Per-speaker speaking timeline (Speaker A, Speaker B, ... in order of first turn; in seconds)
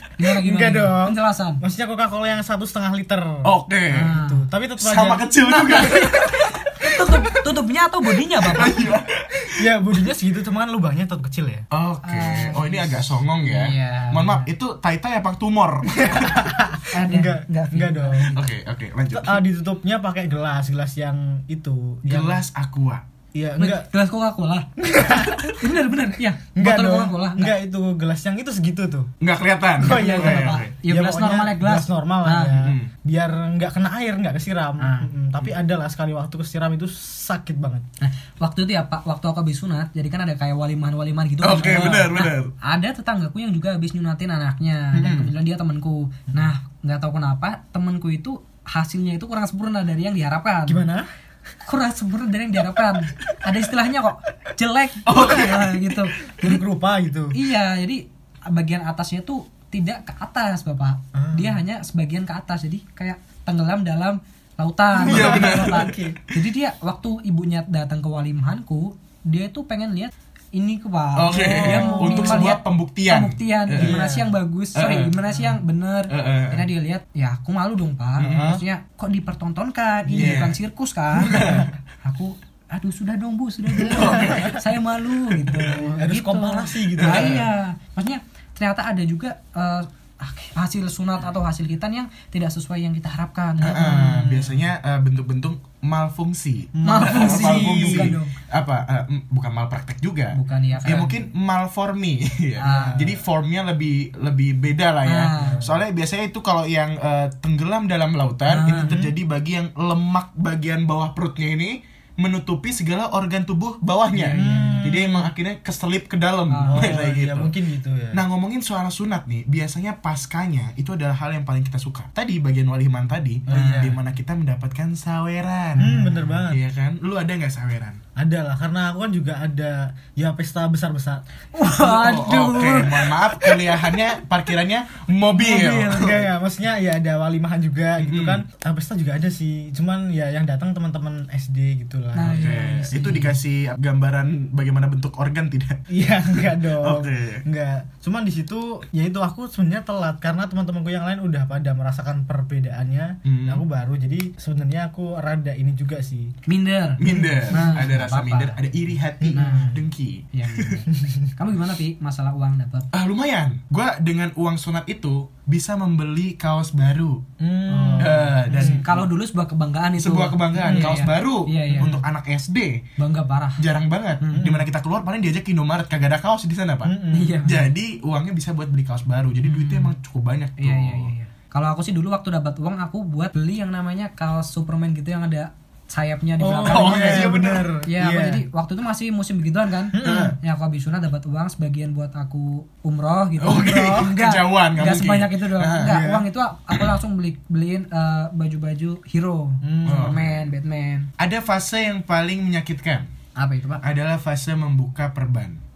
Speaker A: 0.2-1.6, 3.9-4.4, 5.5-8.9, 12.0-14.5, 16.9-18.4, 23.6-24.7, 25.4-27.5, 29.8-32.6, 34.8-35.1, 38.0-50.9, 51.7-56.6, 57.3-93.9, 96.8-98.3, 100.3-101.1, 102.6-103.0, 105.0-105.6, 108.5-109.0, 114.1-115.0, 116.5-116.9, 123.5-123.9, 125.8-126.3, 131.5-133.9, 135.3-136.2, 142.2-143.3, 156.5-158.6, 159.3-159.8, 160.3-162.9, 167.7-172.0, 173.0-173.6, 174.2-174.5, 177.1-177.7, 179.4-179.9, 180.6-201.1, 203.3-203.8
Speaker B: 0.4-3.5, 4.1-5.3, 9.5-11.7, 15.9-18.3, 19.1-22.4, 23.3-23.9, 24.8-25.7, 26.6-29.1, 29.8-37.9, 44.9-45.3, 50.7-51.1, 56.4-57.3, 61.1-61.6, 65.0-66.2, 71.3-72.5, 73.7-74.4, 75.3-75.6, 78.3-78.6, 80.1-80.4, 81.2-81.7, 84.0-84.6, 86.0-87.5, 93.7-94.7, 96.7-98.2, 102.6-103.2, 105.3-105.8, 114.3-115.3, 116.7-118.2, 123.5-124.0, 125.8-126.6, 128.2-131.2, 135.9-143.3, 145.9-156.3, 157.0-157.8, 159.2-159.8, 160.9-161.3, 167.4-168.8, 170.5-171.0, 171.7-172.0, 174.4-174.6, 176.8-177.4, 186.4-188.4, 189.9-190.4, 193.5-193.9, 195.8-196.3, 199.6-200.2
Speaker C: 3.4-4.1, 4.8-6.3, 8.5-9.7, 11.7-16.5, 18.3-19.4, 22.1-23.0, 29.2-30.7, 32.6-32.9, 41.4-42.5, 55.1-56.0, 65.0-66.1, 71.2-74.0, 74.8-75.1, 76.1-76.7, 78.2-78.6, 80.1-80.6, 81.2-81.7, 83.7-84.8, 85.3-85.8, 87.0-87.5, 93.6-117.5, 118.1-128.0, 131.8-136.2, 138.0-138.4, 142.3-145.8, 146.4-147.4, 153.2-153.6, 157.0-160.8, 162.9-167.2, 168.0-169.1, 170.0-172.8, 173.6-181.1, 186.5-187.7, 190.0-190.4, 193.4-196.0, 199.9-200.5, 201.2-203.1, 203.8-205.6